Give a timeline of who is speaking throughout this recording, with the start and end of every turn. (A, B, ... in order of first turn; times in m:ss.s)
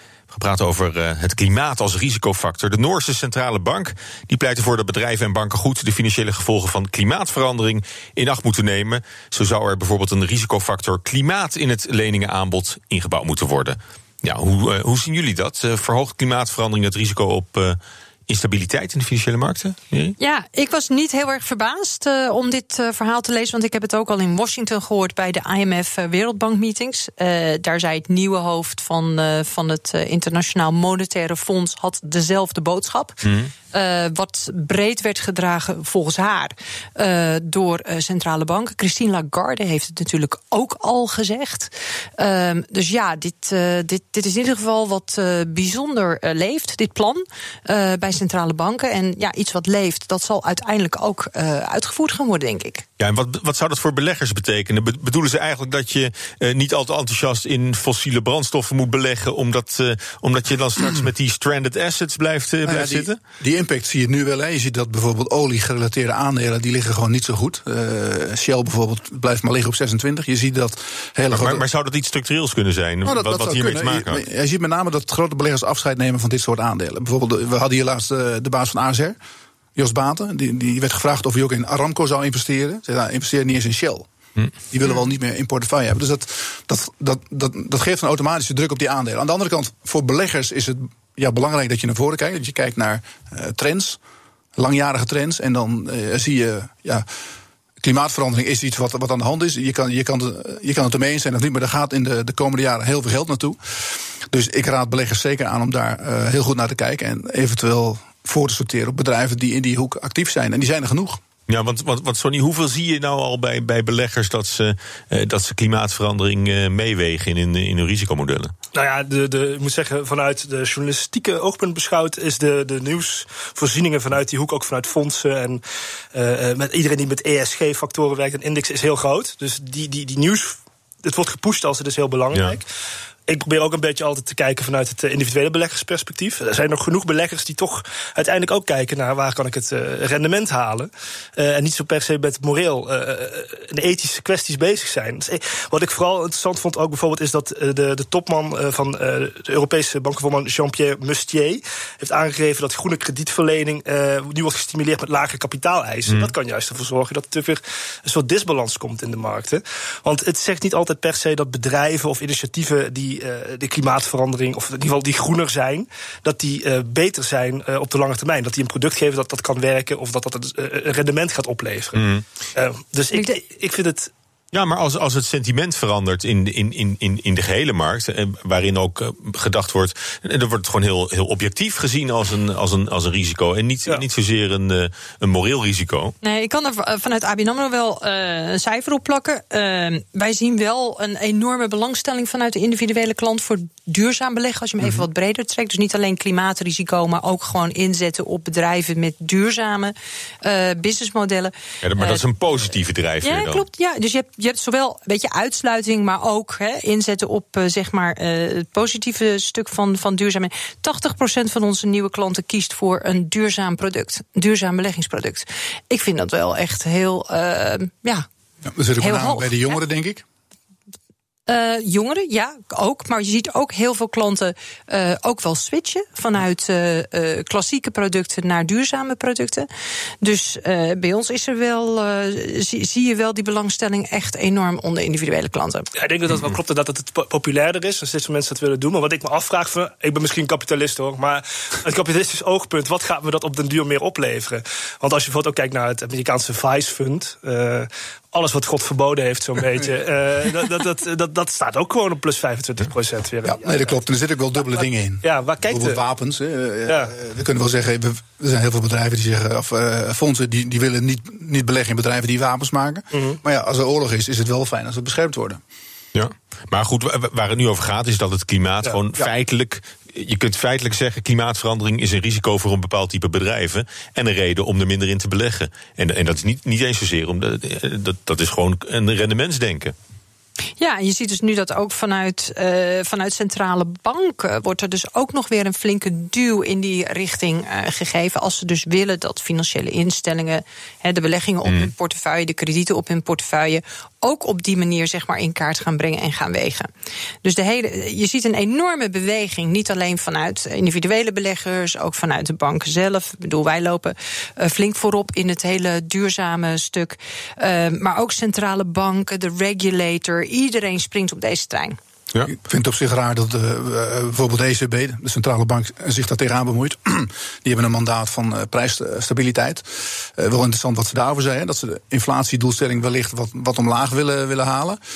0:00.3-0:20.2 A
0:20.2-0:52.8 B
0:33.2-0:33.5 A
0:53.0-1:03.2 A
1:02.6-1:11.6 C
1:11.3-1:14.2 A
1:13.0-1:19.2 C
1:19.8-1:24.1 C
1:24.7-1:34.0 C
1:34.6-1:37.1 C
1:37.8-1:43.6 C
1:44.3-1:51.2 C
1:51.5-1:58.5 A
1:58.7-2:05.6 D
2:06.1-2:12.7 D
2:12.3-2:12.6 A
2:13.3-2:54.1 D
2:52.0-2:52.2 A
2:54.5-3:06.2 A
3:06.2-3:22.2 B
3:21.8-3:23.6 A
3:23.2-3:38.3 B
3:38.7-3:40.2 C
3:39.0-3:39.5 B
3:41.5-3:49.7 B
3:50.2-3:55.9 B
3:56.0-4:14.0 D
4:13.4-4:25.6 C
4:14.6-4:16.0 D
4:16.9-4:17.1 D
4:23.1-4:23.4 D
4:26.1-4:39.9 A
4:40.8-4:56.9 B
4:57.4-5:12.0 B
5:12.4-5:25.0 C